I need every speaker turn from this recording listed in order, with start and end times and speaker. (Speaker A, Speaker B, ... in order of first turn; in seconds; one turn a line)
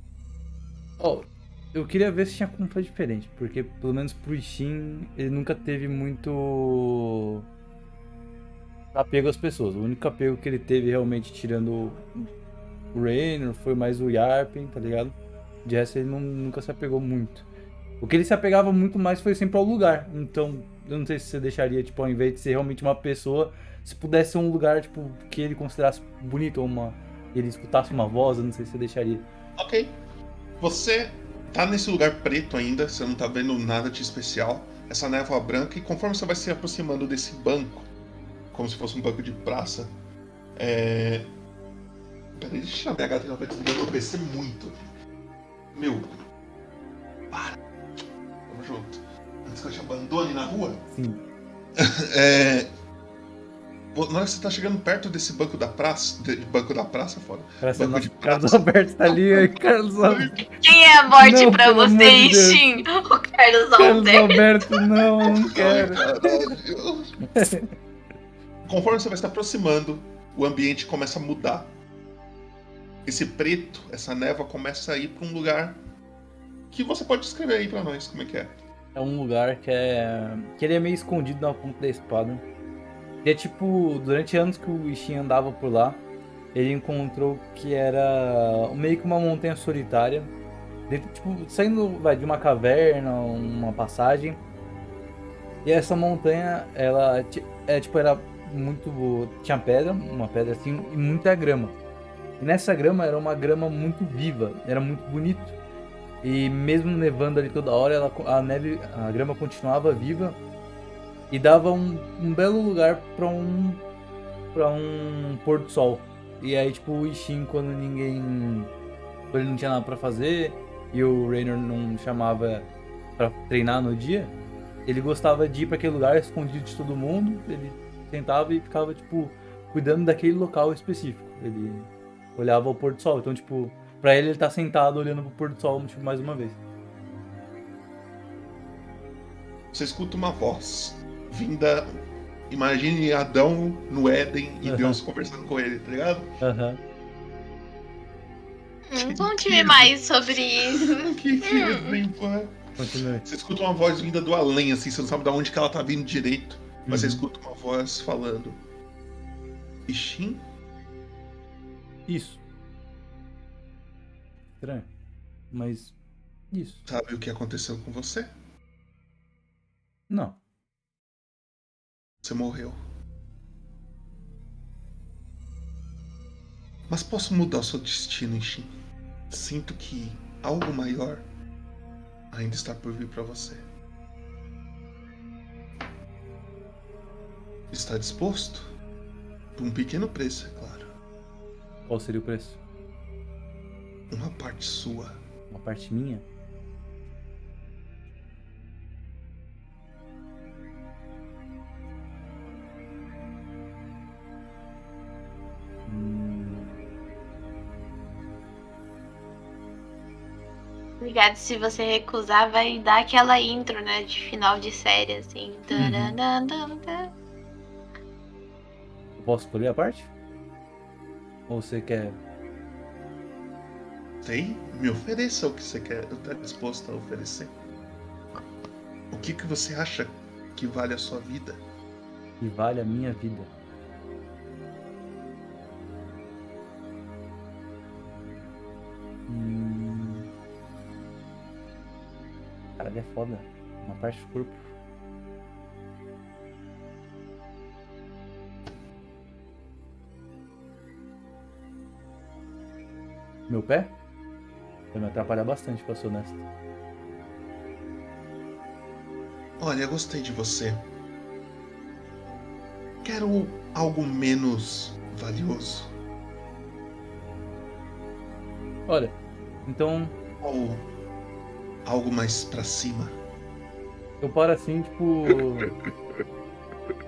Speaker A: 1.0-7.5
Speaker A: 8.9-12.3
Speaker A: 12.9-17.4
Speaker A: 18.0-29.3
Speaker B: 29.6-29.9
Speaker B: 30.6-37.9
Speaker B: 38.5-39.9
Speaker B: 40.6-41.3
Speaker B: 42.4-44.7
Speaker B: 45.7-46.1
Speaker B: 47.3-47.6
Speaker B: 48.5-50.8
Speaker A: 50.9-51.2
Speaker B: 51.8-52.7
Speaker B: 53.9-60.5
Speaker A: 57.6-60.5
Speaker C: 60.6-64.4
Speaker A: 61.1-62.6
Speaker A: 63.8-66.5
Speaker B: 65.3-67.2
Speaker A: 67.3-67.7
Speaker B: 68.7-71.7
Speaker B: 73.0-75.8
Speaker B: 76.7-78.5
Speaker A: 78.9-82.4
Speaker A: 83.2-86.0
Speaker A: 86.5-90.3
Speaker A: 90.9-94.4
Speaker A: 95.6-101.8
Speaker A: 102.4-105.5
Speaker A: 106.2-110.4
Speaker A: 111.3-113.8
Speaker A: 114.5-118.7
Speaker A: 119.3-124.3
Speaker A: 124.8-136.6
Speaker B: 139.7-141.9
Speaker B: 142.5-146.3
Speaker A: 144.6-145.0
Speaker A: 146.4-146.8
Speaker C: 148.9-151.9
Speaker B: 149.0-152.6
Speaker A: 152.8-153.2
Speaker B: 153.2-158.6
Speaker A: 156.9-157.2
Speaker B: 159.9-160.4
Speaker A: 162.1-162.4
Speaker A: 164.6-164.9
Speaker A: 165.5-165.9
Speaker A: 166.5-166.8
Speaker B: 166.9-168.3
Speaker A: 170.1-170.4
Speaker B: 172.2-172.8
Speaker B: 176.9-178.7
Speaker B: 179.3-181.2
Speaker B: 182.3-183.6
Speaker B: 187.7-188.7
Speaker B: 189.6-190.9
Speaker A: 191.9-192.6
Speaker B: 194.1-195.2
Speaker A: 195.5-196.2
Speaker A: 205.8-206.8
Speaker C: 211.0-217.1
Speaker A: 215.8-216.2
Speaker A: 219.2-220.1
Speaker A: 221.5-222.2
Speaker B: 224.2-227.5
Speaker B: 229.1-231.6
Speaker A: 232.4-233.5
Speaker A: 239.3-240.3
Speaker A: 242.8-244.6
Speaker A: 253.5-253.9
Speaker A: 254.9-256.4
Speaker B: 259.6-260.8
Speaker B: 263.0-265.9
Speaker A: 268.9-270.1
Speaker B: 270.4-270.8
Speaker B: 271.8-273.1
Speaker A: 274.2-275.7